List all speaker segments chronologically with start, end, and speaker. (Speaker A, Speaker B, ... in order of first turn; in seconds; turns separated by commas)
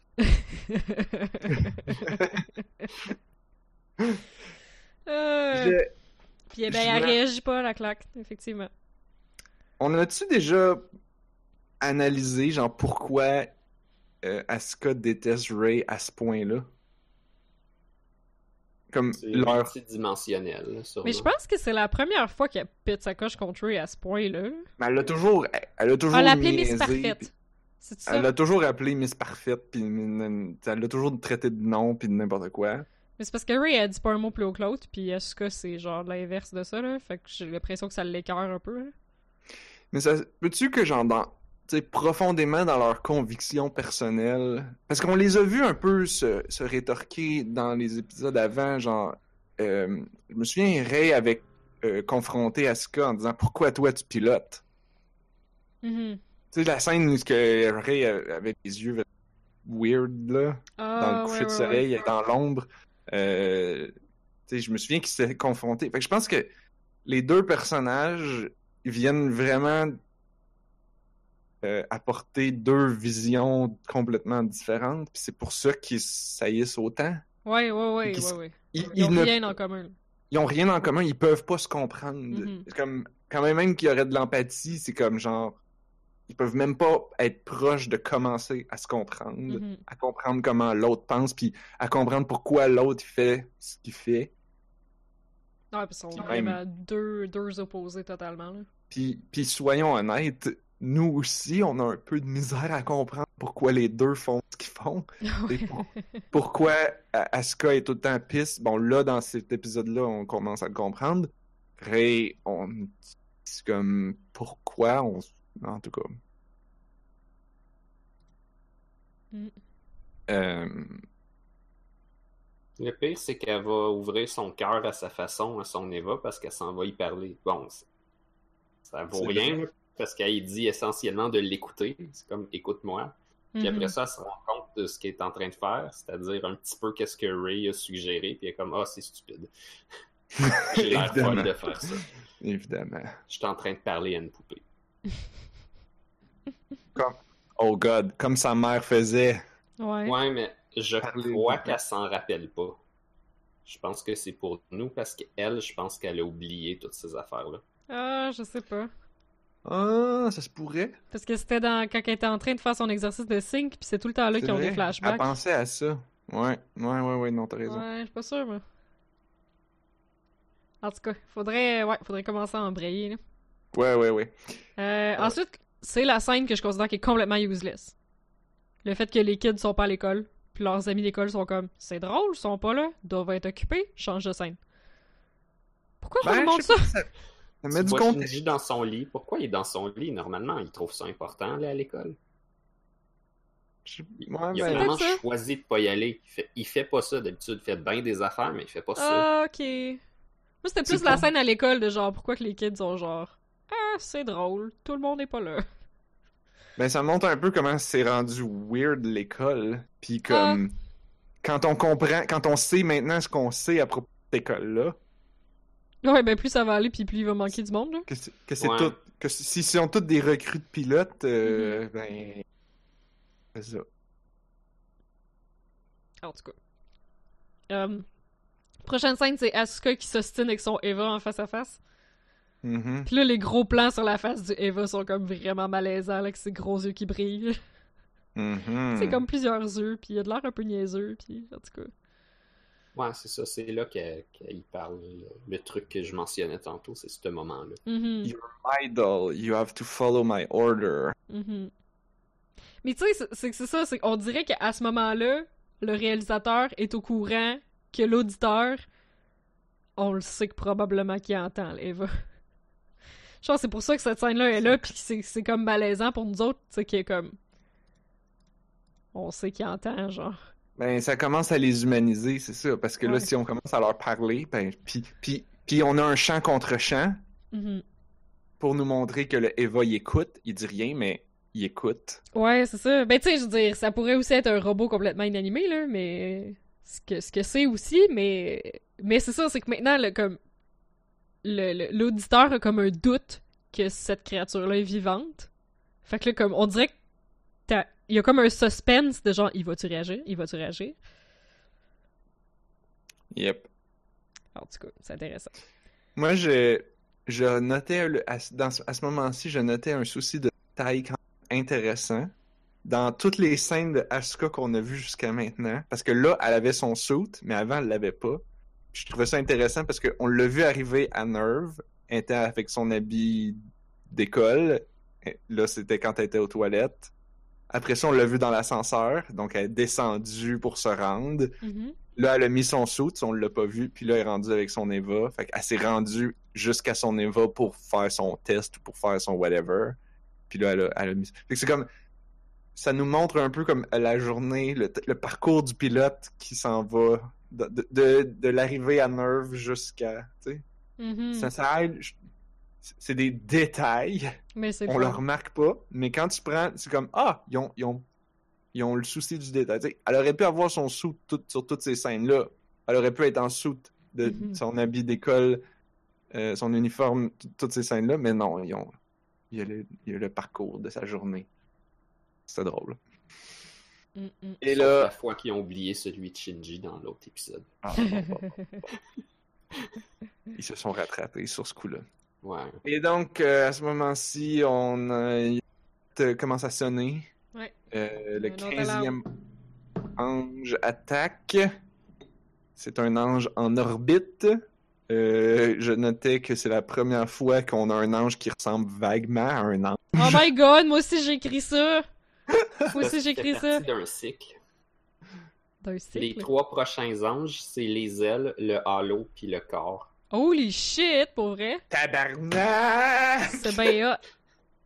Speaker A: 0.2-2.2, Speaker B: 2.1-2.4, Speaker A: 5.1-5.8, Speaker B: 5.5-5.9, Speaker A: 6.5-8.7, Speaker B: 6.7-7.2, Speaker B: 9.8-10.9, Speaker B: 11.8-13.5, Speaker B: 14.2-16.7, Speaker B: 18.9-19.7, Speaker C: 19.2-21.3, Speaker A: 21.0-24.7, Speaker B: 24.8-27.3, Speaker A: 26.1-27.3, Speaker A: 27.8-28.3, Speaker B: 28.1-32.9, Speaker A: 33.2-38.9, Speaker B: 39.9-54.6, Speaker A: 55.8-56.2, Speaker B: 56.5-59.0, Speaker B: 59.6-63.9, Speaker A: 60.8-61.9, Speaker B: 64.5-66.5, Speaker B: 67.1-70.0, Speaker B: 71.6-77.2, Speaker A: 77.5-79.9, Speaker B: 78.1-79.5, Speaker B: 80.3-85.6, Speaker A: 82.3-82.7, Speaker B: 86.3-94.3, Speaker A: 89.5-89.8, Speaker A: 95.7-98.7, Speaker B: 96.1-96.6, Speaker B: 98.9-116.2, Speaker A: 105.2-106.2, Speaker B: 120.3-121.0, Speaker C: 122.8-127.9, Speaker C: 128.9-139.5, Speaker B: 129.1-129.6, Speaker A: 133.6-133.9, Speaker B: 140.4-143.2, Speaker C: 140.5-142.1, Speaker C: 143.3-144.6, Speaker B: 146.9-149.4, Speaker A: 149.8-150.2, Speaker C: 150.1-152.8, Speaker B: 151.0-151.8, Speaker C: 153.7-157.6, Speaker A: 157.9-158.9, Speaker B: 159.7-161.0, Speaker A: 161.1-165.3, Speaker B: 164.4-167.8, Speaker A: 167.7-168.6, Speaker A: 170.8-173.2, Speaker B: 173.7-174.3, Speaker A: 174.8-177.9, Speaker A: 178.8-184.6, Speaker A: 186.0-186.9, Speaker B: 186.2-187.1, Speaker B: 187.6-188.4, Speaker C: 187.7-192.2, Speaker B: 193.9-195.0, Speaker C: 194.5-199.3, Speaker A: 194.6-195.2, Speaker A: 199.0-200.0, Speaker A: 200.6-205.7, Speaker B: 200.9-201.3, Speaker B: 206.8-210.7, Speaker A: 210.3-210.6, Speaker B: 211.4-215.0, Speaker A: 216.0-218.1, Speaker B: 218.1-222.4, Speaker C: 218.6-219.0, Speaker A: 221.4-221.8, Speaker B: 223.5-223.8, Speaker A: 226.2-226.5, Speaker A: 227.7-228.1, Speaker A: 228.8-231.8, Speaker B: 232.6-233.1, Speaker A: 233.1-237.6, Speaker B: 238.3-239.2, Speaker A: 238.9-241.9, Speaker C: 242.9-247.8, Speaker A: 247.9-248.3, Speaker B: 248.2-251.2, Speaker A: 251.3-251.7, Speaker A: 252.8-258.8, Speaker A: 260.0-262.1, Speaker A: 263.4-267.4, Speaker A: 269.1-270.4, Speaker B: 270.8-277.2, Speaker A: 273.0-273.3, Speaker A: 277.5-277.8, Speaker B: 278.6-282.2, Speaker A: 282.3-290.4, Speaker A: 291.4-295.5, Speaker A: 296.1-296.9, Speaker A: 297.7-301.0, Speaker B: 303.3-303.7, Speaker A: 304.6-305.5, Speaker B: 306.2-312.3, Speaker B: 312.8-318.4, Speaker B: 318.9-323.6, Speaker B: 324.1-327.1, Speaker B: 327.7-331.6, Speaker A: 331.6-332.0, Speaker B: 332.2-340.0, Speaker B: 340.5-341.9, Speaker B: 342.8-350.6, Speaker A: 351.0-351.5, Speaker B: 351.4-352.2, Speaker B: 352.8-354.3, Speaker A: 354.6-355.2, Speaker B: 354.9-358.1, Speaker B: 358.7-365.6, Speaker A: 364.2-364.6, Speaker B: 366.3-368.9, Speaker B: 369.5-371.5, Speaker B: 372.5-373.0, Speaker A: 374.2-374.6, Speaker B: 374.6-375.1, Speaker C: 374.7-377.7, Speaker B: 377.8-378.6, Speaker A: 377.9-378.9, Speaker B: 380.5-382.1, Speaker C: 382.4-382.8, Speaker B: 382.8-385.6, Speaker B: 386.1-387.3, Speaker B: 387.9-389.3, Speaker A: 388.4-389.2, Speaker B: 390.2-391.7, Speaker B: 392.8-400.4, Speaker A: 400.1-402.1, Speaker A: 402.9-403.9, Speaker C: 402.9-404.6, Speaker A: 405.8-406.5, Speaker C: 406.1-410.1, Speaker A: 410.3-411.8, Speaker B: 411.9-413.9, Speaker A: 413.5-414.2